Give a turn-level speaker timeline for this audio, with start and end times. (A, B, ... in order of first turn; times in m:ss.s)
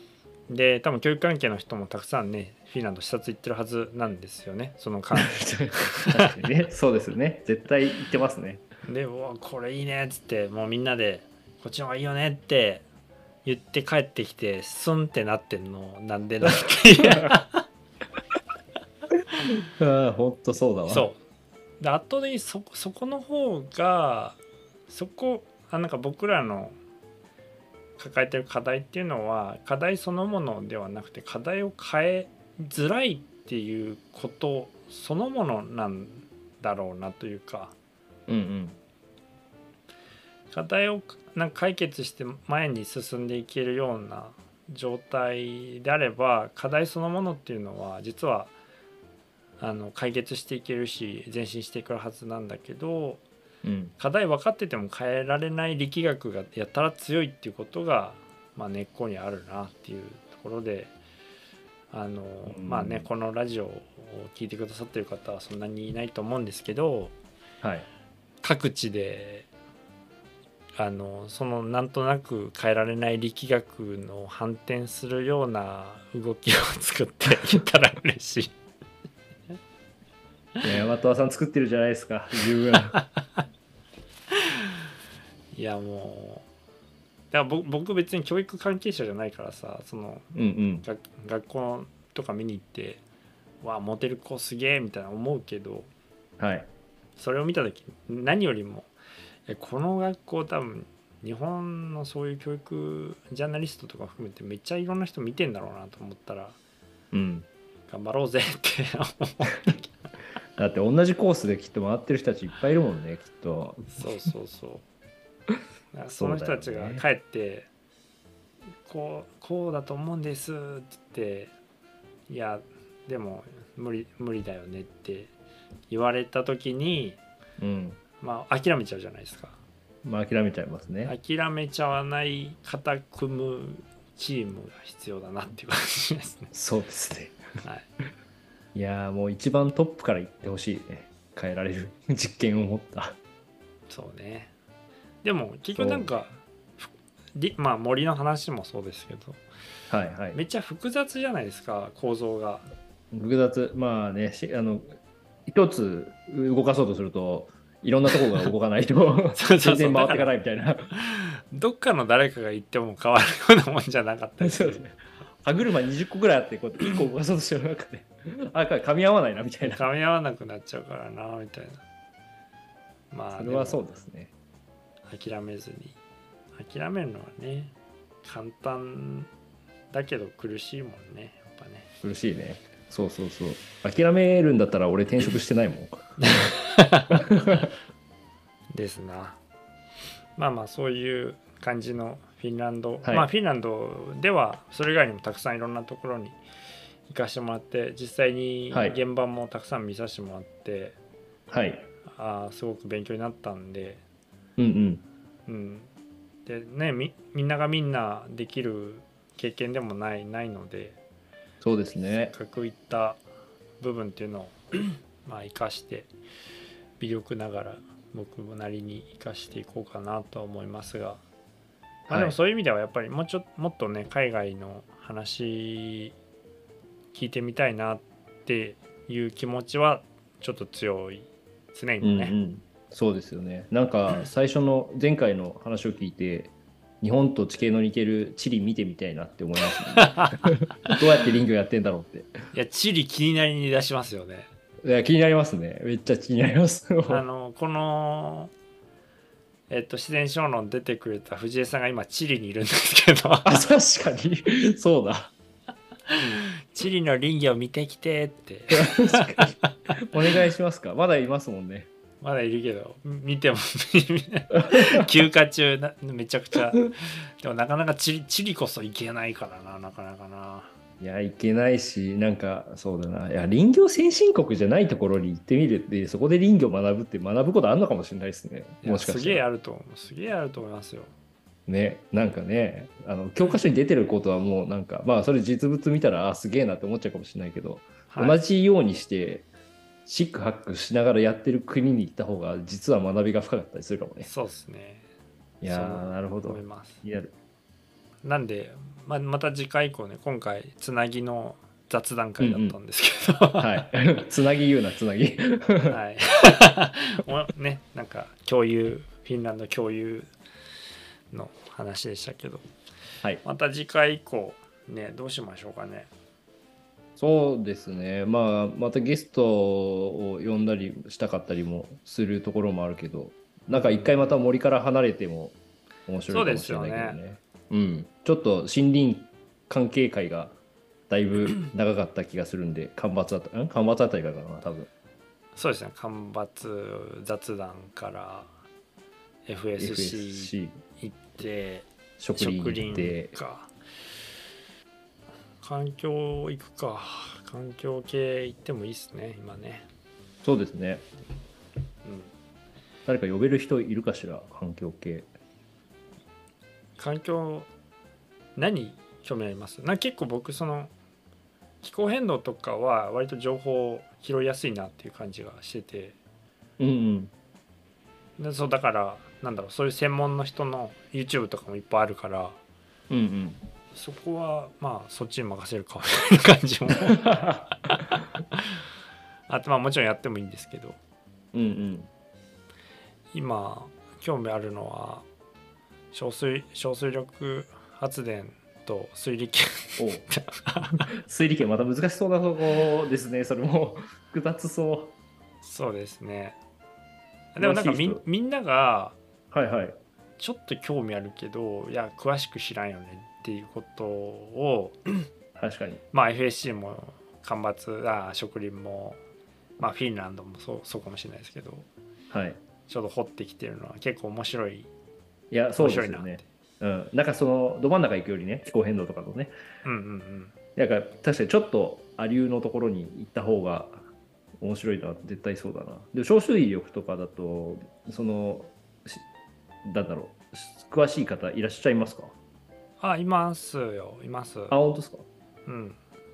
0:00.5-0:06.3 A
0:05.2-0:08.6 B
0:08.8-0:12.8 A
0:13.4-0:17.6 A
0:19.8-0:21.1 B
0:20.9-0:21.2 A
0:21.8-0:26.8 A
0:28.0-0:37.7 A
0:38.3-0:38.8 B
0:40.5-0:48.5 A
0:49.6-0:53.2 A
0:53.6-0:53.9 B
0:54.0-1:00.9 A
1:01.9-1:07.1 A
1:02.5-1:03.1 B
1:07.6-1:07.9 B
1:08.4-1:09.5 A
1:10.8-1:18.5 A
1:20.6-1:23.0 B
1:23.0-1:23.4 A
1:24.3-1:24.7 A
1:25.5-1:26.4 A
1:27.3-1:30.3 A
1:30.3-1:30.8 B
1:30.8-1:33.0 A
1:33.6-1:35.9 A
1:36.4-1:36.7 B
1:37.2-1:38.9 A
1:39.5-1:46.6 A
1:47.1-1:47.4 B
1:47.9-1:50.0 A
1:50.6-1:54.1 B
1:53.9-1:54.8 A
1:55.9-1:57.7 A
1:56.2-1:57.0 B
1:58.8-2:01.5 A
2:02.3-2:05.3 A
2:05.9-2:07.2 A
2:07.6-2:08.0 B
2:08.2-2:09.6 A
2:10.0-2:11.1 B
2:11.0-2:16.5 A
2:16.5-2:17.4 B
2:18.7-2:23.2 B
2:23.9-2:24.5 A
2:25.2-2:29.4 A
2:25.7-2:26.1 B
2:29.9-2:30.4 B
2:30.3-2:32.7 A
2:33.1-2:34.8 B
2:35.4-2:40.9 B
2:39.4-2:40.3 A
2:41.1-2:44.8 A
2:44.4-2:49.8 B
2:49.7-2:51.8 A
2:53.1-2:53.8 A
2:53.4-2:54.3 B
2:55.0-2:56.0 A
2:56.5-2:59.3 A
2:59.9-3:01.9 A
3:02.0-3:06.5 B
3:06.2-3:07.6 A
3:07.2-3:07.7 B
3:08.7-3:09.4 A
3:10.4-3:16.4 A
3:17.1-3:21.0 A
3:18.7-3:19.0 B
3:21.5-3:21.9 B
3:22.1-3:24.0 A
3:24.6-3:25.0 B
3:25.5-3:25.9 A
3:26.4-3:31.0 A
3:31.6-3:32.3 B
3:32.3-3:33.2 A
3:33.8-3:36.1 A
3:37.0-3:41.2 A
3:42.1-3:42.3 B
3:42.1-3:46.2 A
3:47.1-3:52.3 A
3:52.0-4:02.3 B
4:00.0-4:00.9 A
4:02.5-4:04.5 A
4:04.8-4:07.2 B
4:07.1-4:08.5 A
4:09.7-4:13.6 A
4:13.4-4:15.3 B
4:16.1-4:20.0 A
4:18.7-4:21.9 B
4:22.2-4:30.7 A
4:24.7-4:25.0 B
4:31.0-4:39.4 B
4:38.8-4:41.1 A
4:41.7-4:49.4 B
4:48.1-4:48.4 A
4:50.0-4:54.3 B
4:54.2-4:55.1 A
4:55.6-4:57.3 B
4:55.6-4:57.0 A
4:58.2-5:03.8 A
5:02.4-5:02.8 B
5:03.6-5:06.0 B
5:05.9-5:10.3 A
5:11.3-5:12.6 A
5:13.4-5:16.1 A
5:17.2-5:30.6 B
5:23.7-5:24.3 A
5:26.3-5:27.2 A
5:31.1-5:34.9 B
5:35.5-5:38.5 A
5:39.4-5:43.7 A
5:39.8-5:40.8 B
5:42.2-5:43.3 B
5:45.6-5:49.9 A
5:50.4-5:51.0 B
5:52.0-5:52.3 A
5:53.1-5:55.3 B
5:57.0-5:57.7 A
5:58.6-6:00.9 A
6:01.8-6:06.2 A
6:06.8-6:07.3 B
6:08.4-6:12.6 A
6:13.1-6:13.6 B
6:13.9-6:18.8 A
6:17.1-6:17.6 B
6:19.5-6:21.0 A
6:21.5-6:22.1 B
6:23.3-6:25.2 A
6:26.1-6:31.0 A
6:30.0-6:30.2 B
6:31.2-6:35.1 B
6:35.6-6:36.6 A
6:37.5-6:39.2 A
6:37.6-6:38.2 B
6:39.5-6:40.0 B
6:40.4-6:45.3 A
6:45.6-6:46.0 B
6:46.1-6:49.2 A
6:49.8-6:51.9 A
6:52.3-6:52.6 B
6:52.9-6:54.9 A
6:55.5-6:59.5 B
6:55.8-6:56.4 A
6:59.8-7:00.5 A
7:00.8-7:04.0 B
7:04.6-7:09.2 B
7:09.8-7:12.3 B
7:13.0-7:14.8 A
7:14.7-7:15.2 B
7:15.6-7:16.0 A